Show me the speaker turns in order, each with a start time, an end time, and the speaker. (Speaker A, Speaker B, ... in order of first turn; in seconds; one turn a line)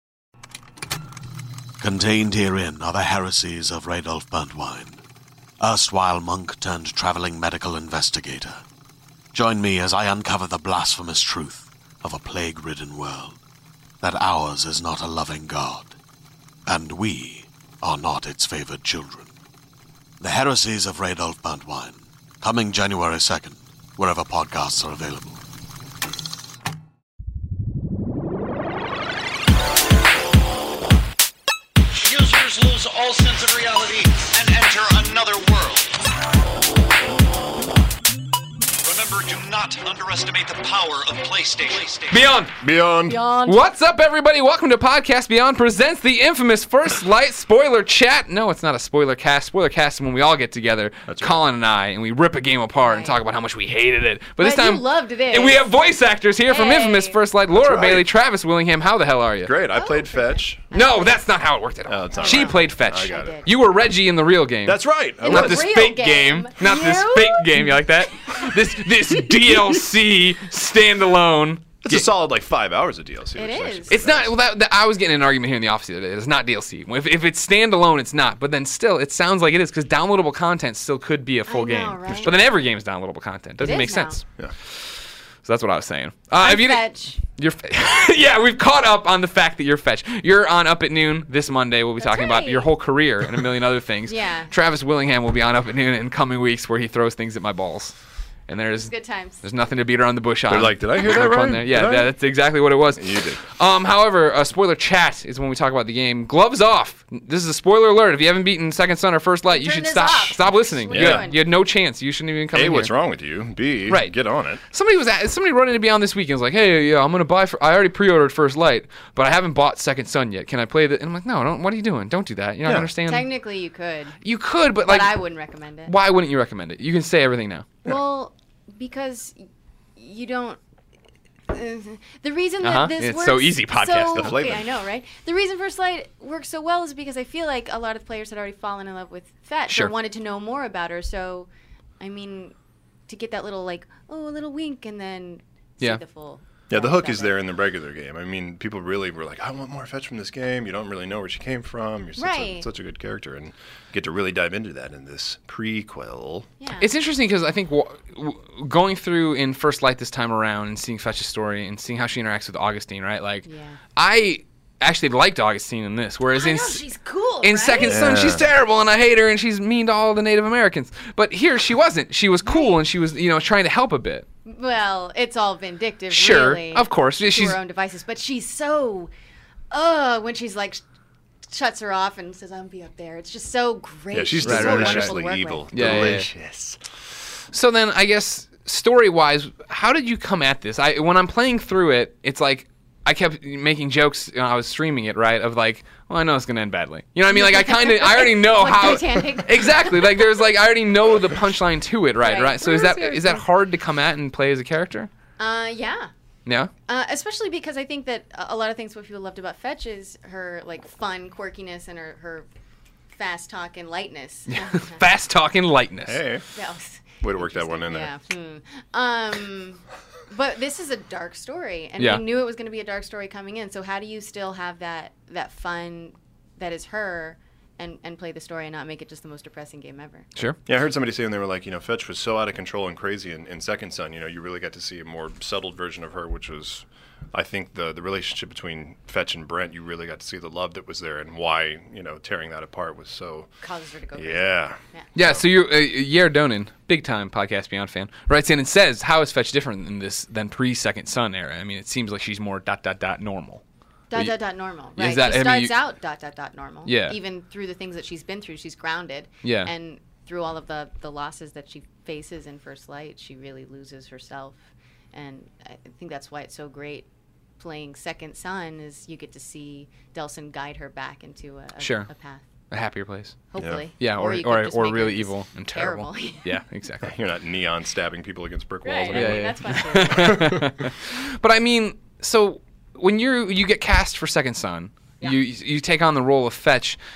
Speaker A: 1.8-5.0
Speaker A: 5.6-8.6
Speaker A: 9.3-13.4
Speaker A: 14.0-15.9
Speaker A: 16.7-19.3
Speaker A: 20.2-25.4
Speaker B: 32.0-35.9
Speaker B: 38.8-42.4
Speaker C: 42.1-42.5
Speaker D: 42.6-43.2
Speaker E: 43.1-43.6
Speaker C: 43.4-59.5
Speaker D: 51.1-51.4
Speaker E: 52.8-53.2
Speaker E: 54.4-55.7
Speaker E: 56.5-57.2
Speaker D: 57.5-58.1
Speaker D: 59.4-60.6
Speaker E: 59.7-61.2
Speaker C: 60.7-72.1
Speaker D: 61.9-63.4
Speaker E: 62.1-63.5
Speaker D: 64.6-65.7
Speaker E: 65.2-67.6
Speaker D: 71.8-74.3
Speaker E: 73.3-74.0
Speaker C: 73.9-84.9
Speaker E: 81.5-82.5
Speaker D: 82.1-82.3
Speaker D: 83.6-83.8
Speaker E: 83.6-84.2
Speaker C: 85.4-97.9
Speaker E: 86.3-87.2
Speaker E: 92.0-92.7
Speaker E: 94.0-94.5
Speaker C: 98.5-113.1
Speaker E: 98.7-99.4
Speaker D: 100.5-103.4
Speaker E: 109.5-111.4
Speaker D: 110.9-111.3
Speaker D: 112.5-114.6
Speaker C: 113.9-123.3
Speaker D: 122.6-122.9
Speaker E: 123.1-124.2
Speaker C: 124.2-127.7
Speaker E: 124.8-125.9
Speaker E: 127.8-129.4
Speaker E: 129.9-130.6
Speaker E: 131.5-141.5
Speaker C: 132.6-134.4
Speaker D: 134.2-134.7
Speaker C: 139.7-139.9
Speaker E: 142.0-142.5
Speaker E: 143.1-147.4
Speaker D: 146.7-156.5
Speaker E: 152.2-152.7
Speaker E: 156.6-156.9
Speaker C: 156.8-166.9
Speaker E: 163.4-163.8
Speaker E: 166.3-168.0
Speaker C: 167.4-174.2
Speaker D: 167.8-168.4
Speaker E: 172.4-172.8
Speaker E: 174.4-179.1
Speaker C: 176.1-177.6
Speaker E: 179.7-180.8
Speaker E: 181.5-186.0
Speaker D: 184.1-186.8
Speaker C: 184.4-185.2
Speaker C: 185.7-186.3
Speaker C: 187.5-205.1
Speaker E: 197.3-200.2
Speaker E: 202.2-203.4
Speaker E: 205.4-206.1
Speaker C: 206.4-206.7
Speaker E: 206.9-212.5
Speaker E: 213.1-215.0
Speaker C: 214.5-216.2
Speaker D: 216.0-216.5
Speaker E: 216.5-230.3
Speaker D: 217.2-218.1
Speaker D: 230.7-243.5
Speaker E: 243.6-245.1
Speaker D: 244.1-245.4
Speaker C: 245.1-253.6
Speaker E: 254.1-267.1
Speaker C: 254.1-255.8
Speaker C: 256.8-257.2
Speaker C: 259.4-259.7
Speaker E: 267.6-272.4
Speaker C: 271.8-272.1
Speaker C: 272.7-277.1
Speaker E: 273.5-276.6
Speaker D: 273.6-273.8
Speaker D: 277.0-280.7
Speaker E: 278.8-280.4
Speaker C: 279.1-287.0